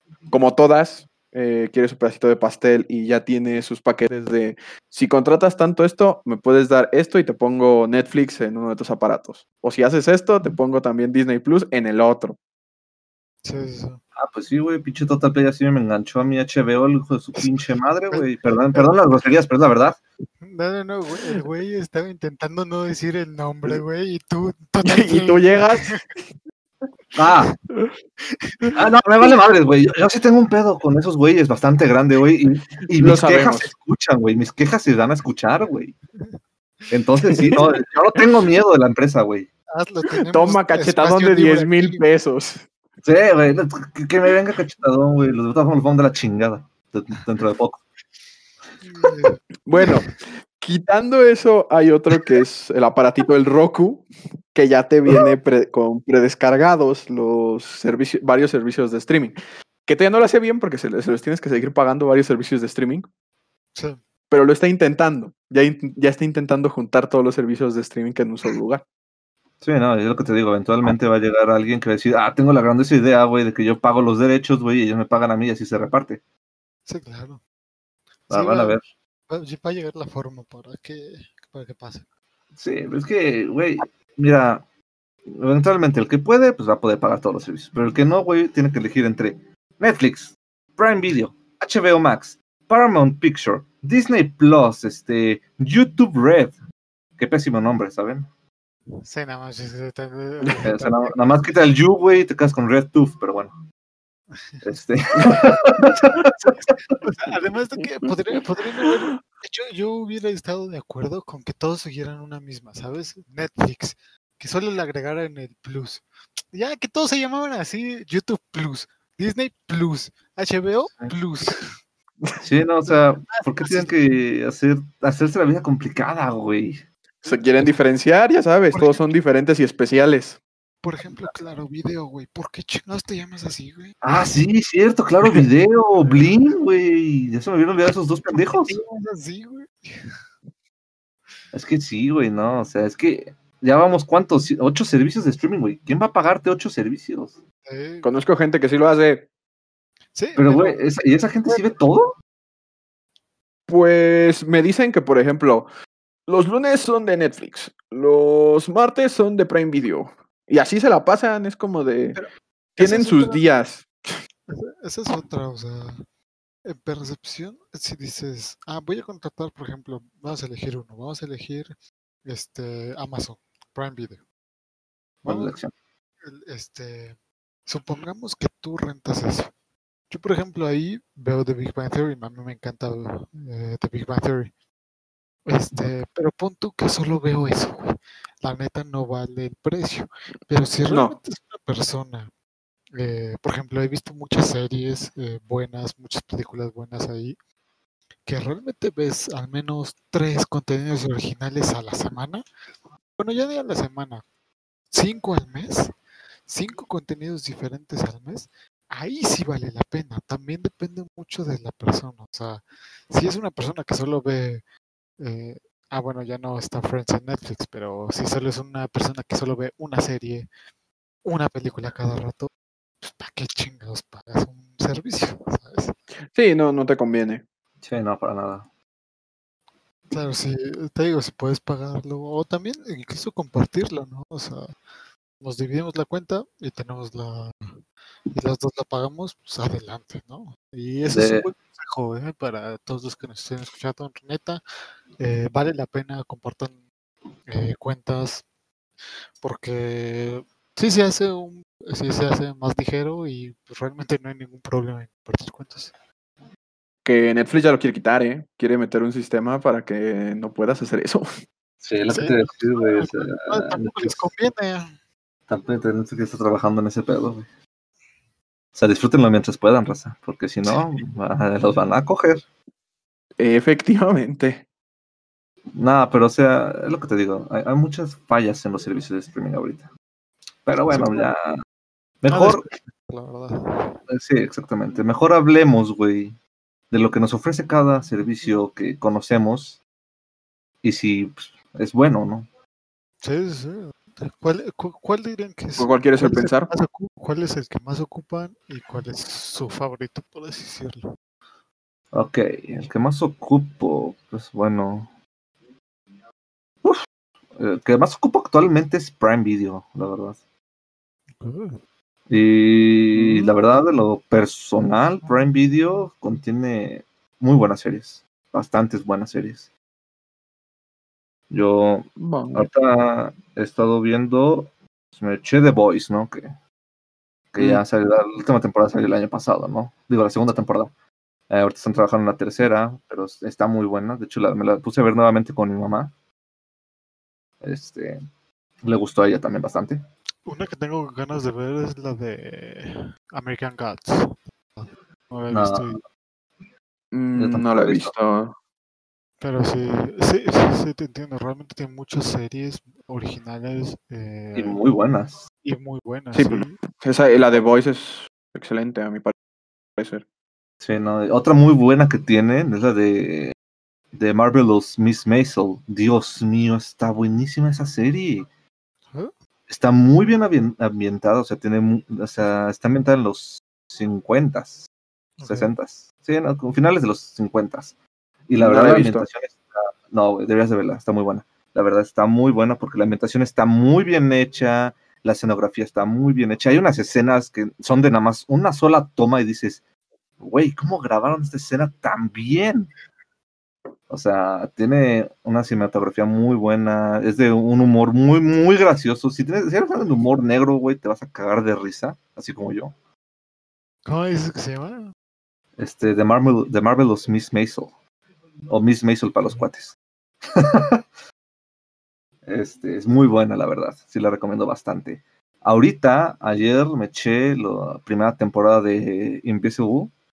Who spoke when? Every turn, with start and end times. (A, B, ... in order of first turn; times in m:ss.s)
0:00.3-0:12.4 A
0:13.4-0:14.0 B
0:14.2-0:20.0 C
0:17.4-0:18.9 B
0:20.4-0:26.0 B
0:24.8-0:26.1 A
0:27.1-0:27.5 C
0:28.4-0:28.7 B
0:28.8-0:35.9 C
0:33.0-0:33.7 A
0:36.9-0:39.5 C
0:37.3-0:37.7 A
0:39.7-0:42.0 B
0:40.2-0:42.7 A
0:43.0-0:47.8 C
0:48.8-0:50.1 B
0:49.6-1:03.1 A
1:03.7-1:04.0 B
1:04.3-1:08.8 A
1:09.6-1:16.2 C
1:16.9-1:17.4 B
1:18.3-1:18.8 B
1:18.3-1:18.8 C
1:19.3-1:22.0 B
1:22.6-1:24.6 C
1:25.3-1:36.5 C
1:37.2-1:38.3 C
1:39.0-1:41.5 B
1:40.6-1:43.5 C
1:44.6-1:46.7 C
1:46.4-2:01.8 B
1:48.8-1:49.2 A
2:02.4-2:06.8 C
2:03.3-2:03.9 B
2:07.2-2:10.4 A
2:08.7-2:09.1 B
2:10.8-2:14.0 B
2:14.0-2:18.8 C
2:18.6-2:20.1 B
2:21.5-2:27.4 C
2:27.6-2:28.1 B
2:28.0-2:29.3 A
2:30.1-2:30.8 B
2:30.4-2:32.1 C
2:33.7-2:35.7 A
2:36.3-2:42.2 A
2:42.1-2:43.4 B
2:42.8-2:44.1 A
2:44.5-2:46.0 B
2:46.6-2:51.7 B
2:52.2-2:54.2 B
2:55.2-2:55.7 C
2:55.2-2:55.6 B
2:56.2-2:57.1 B
2:57.7-2:59.5 B
3:00.1-3:04.5 B
3:05.5-3:12.3 B
3:10.8-3:11.2 A
3:12.9-3:17.4 B
3:18.2-3:22.4 B
3:23.2-3:24.2 B
3:24.9-3:25.9 B
3:26.5-3:34.6 B
3:35.2-3:40.5 B
3:41.2-3:42.5 B
3:43.0-3:45.9 B
3:46.3-3:47.4 A
3:47.8-3:48.6 C
3:50.1-3:54.7 B
3:55.4-3:57.8 B
3:58.3-4:04.6 B
4:01.1-4:01.5 C
4:05.2-4:06.8 B
4:07.5-4:08.4 B
4:09.4-4:15.9 B
4:17.0-4:21.3 A
4:21.8-4:24.3 C
4:22.1-4:24.9 B
4:25.5-4:27.5 C
4:28.7-4:32.4 C
4:33.4-4:34.6 A
4:35.7-4:39.9 C
4:40.6-4:41.6 C
4:40.9-4:41.3 B
4:42.2-4:42.6 C
4:42.3-4:44.0 B
4:44.1-4:46.4 C
4:46.9-4:49.8 C
4:50.8-4:52.5 C
4:53.2-5:01.0 B
4:55.8-4:56.7 A
5:02.1-5:05.1 C
5:07.6-5:10.4 C
5:11.4-5:11.8 B
5:12.3-5:19.7 C
5:13.1-5:13.5 A
5:21.5-5:26.5 C
5:22.2-5:22.7 A
5:27.5-5:30.9 C
5:31.5-5:36.1 C
5:37.6-5:38.2 C
5:38.8-5:40.0 C
5:40.4-5:46.0 B
5:45.5-5:46.0 C
5:47.1-5:48.5 A
5:47.3-5:48.1 C
5:49.4-5:54.8 B
5:54.5-5:55.4 C
5:55.6-5:56.8 B
5:56.3-5:59.3 A
6:00.0-6:00.2 A
6:00.8-6:03.5 C
6:04.1-6:08.5 C
6:09.7-6:14.8 C
6:15.4-6:15.7 B
6:15.4-6:17.9 C
6:18.5-6:29.8 C
6:18.6-6:19.2 A
6:30.4-6:32.9 C
6:34.1-6:42.9 C
6:44.0-6:45.1 B
6:45.8-6:47.9 C
6:48.7-6:51.0 C
6:52.4-7:00.1 C